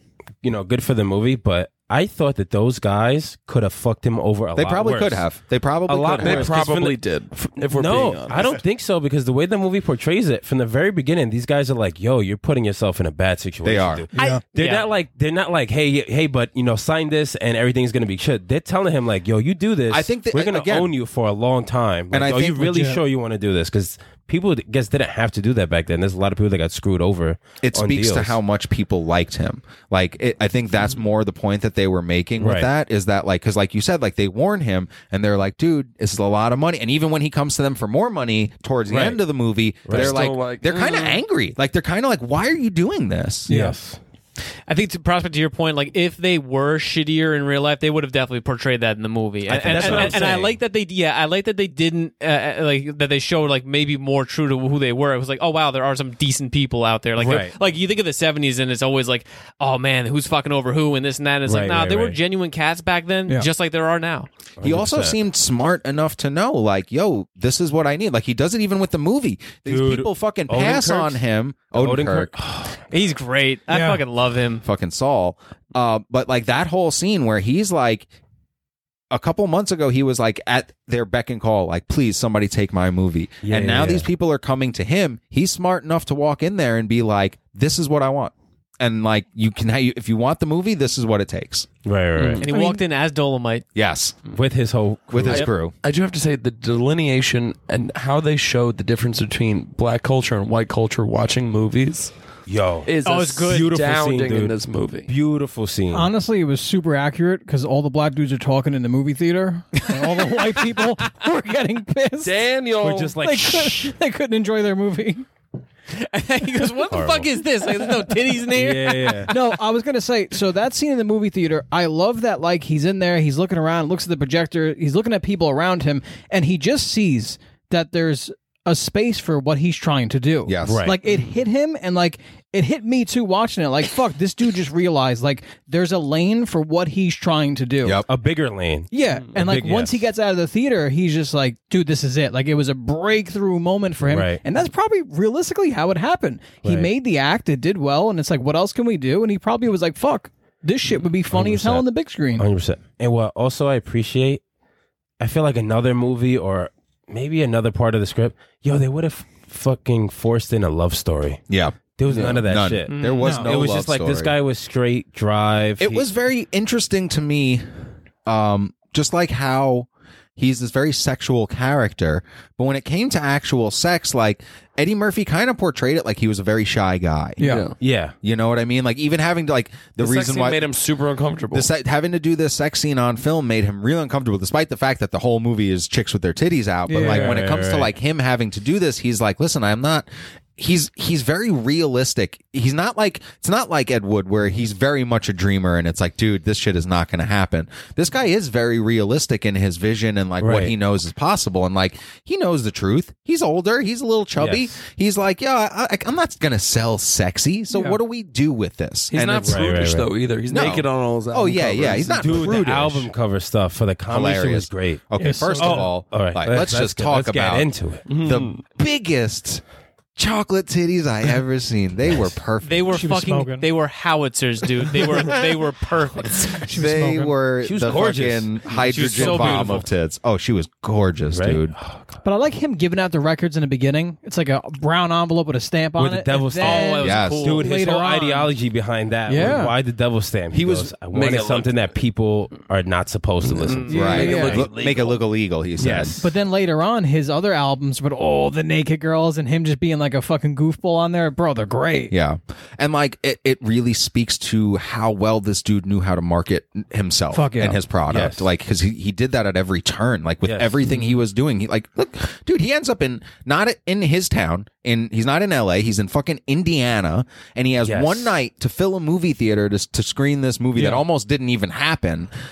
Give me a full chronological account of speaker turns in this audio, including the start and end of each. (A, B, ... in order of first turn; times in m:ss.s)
0:00.4-0:05.2 A
0:04.5-0:06.6 B
0:05.9-0:07.0 A
0:06.2-0:08.6 C
0:07.7-0:28.4 A
0:13.6-0:14.1 B
0:14.1-0:14.4 D
0:14.2-0:14.9 E
0:19.9-0:20.9 B
0:22.1-0:22.7 B
0:22.6-0:23.0 D
0:27.6-0:43.5 B
0:32.4-0:32.7 A
0:38.9-0:39.2 A
0:39.9-0:40.2 A
0:39.9-0:41.2 C
0:43.5-0:43.8 D
0:43.5-0:44.0 A
0:44.7-1:04.3 E
0:49.5-0:50.6 A
0:49.5-0:50.2 B
0:57.2-0:57.6 A
1:01.4-1:02.2 A
1:04.6-1:05.2 A
1:04.6-1:12.3 B
1:09.6-1:11.2 A
1:11.7-1:12.8 A
1:12.9-1:14.6 E
1:13.7-1:14.0 D
1:14.6-1:18.1 B
1:19.1-1:31.7 B
1:23.4-1:24.1 A
1:31.8-1:32.4 A
1:32.2-1:32.4 C
1:32.4-1:33.6 E
1:32.4-1:32.8 D
1:33.7-1:34.2 B
1:34.3-1:35.5 A
1:35.1-1:35.7 B
1:35.8-1:42.1 C
1:42.5-1:42.9 A
1:42.8-1:45.1 C
1:43.0-1:43.7 E
1:43.4-1:44.6 A
1:45.1-1:46.1 A
1:45.9-1:52.4 D
1:49.9-1:50.4 E
1:52.2-1:53.1 C
1:52.8-1:53.9 A
1:53.2-1:55.2 D
1:55.9-1:59.4 E
1:56.9-1:57.3 A
1:58.5-1:59.3 A
1:59.3-2:18.0 D
2:10.4-2:10.9 B
2:10.6-2:11.0 A
2:18.1-2:20.0 A
2:18.9-2:32.4 D
2:24.1-2:24.4 A
2:26.6-2:26.9 A
2:31.3-2:31.9 A
2:32.4-2:34.4 A
2:35.2-2:41.4 A
2:41.5-2:44.3 B
2:42.0-2:46.1 A
2:42.1-2:42.4 C
2:42.9-2:43.3 E
2:43.2-2:43.5 D
2:45.8-2:47.6 B
2:48.2-2:57.4 B
2:57.4-2:57.7 D
2:57.4-2:57.8 C
2:57.8-2:58.1 A
2:58.2-3:00.7 B
3:00.0-3:01.7 C
3:01.5-3:29.8 B
3:06.9-3:07.4 D
3:06.9-3:07.9 A
3:20.4-3:20.7 A
3:24.4-3:24.7 A
3:27.7-3:28.0 D
3:29.1-3:32.6 C
3:29.4-3:30.1 A
3:30.5-3:33.1 B
3:32.2-3:38.1 A
3:34.1-3:39.6 B
3:35.2-3:35.9 D
3:38.1-3:38.6 C
3:40.2-3:43.0 B
3:42.6-3:46.6 E
3:42.9-3:43.6 D
3:46.6-3:47.4 D
3:46.7-3:51.7 B
3:47.6-3:49.8 A
3:48.8-3:49.9 E
3:51.3-3:52.2 A
3:52.2-3:58.5 D
3:56.0-4:04.3 A
3:56.6-3:57.7 E
3:57.0-3:57.6 B
3:59.3-3:59.7 D
4:00.5-4:00.9 B
4:01.0-4:01.7 C
4:03.4-4:05.2 C
4:03.8-4:04.1 E
4:03.9-4:04.7 D
4:03.9-4:06.2 B
4:05.8-4:06.3 A
4:06.2-4:12.1 D
4:12.1-4:32.3 B
4:17.3-4:17.8 D
4:18.1-4:18.5 A
4:20.4-4:21.1 A
4:27.8-4:28.4 A
4:30.8-4:31.0 A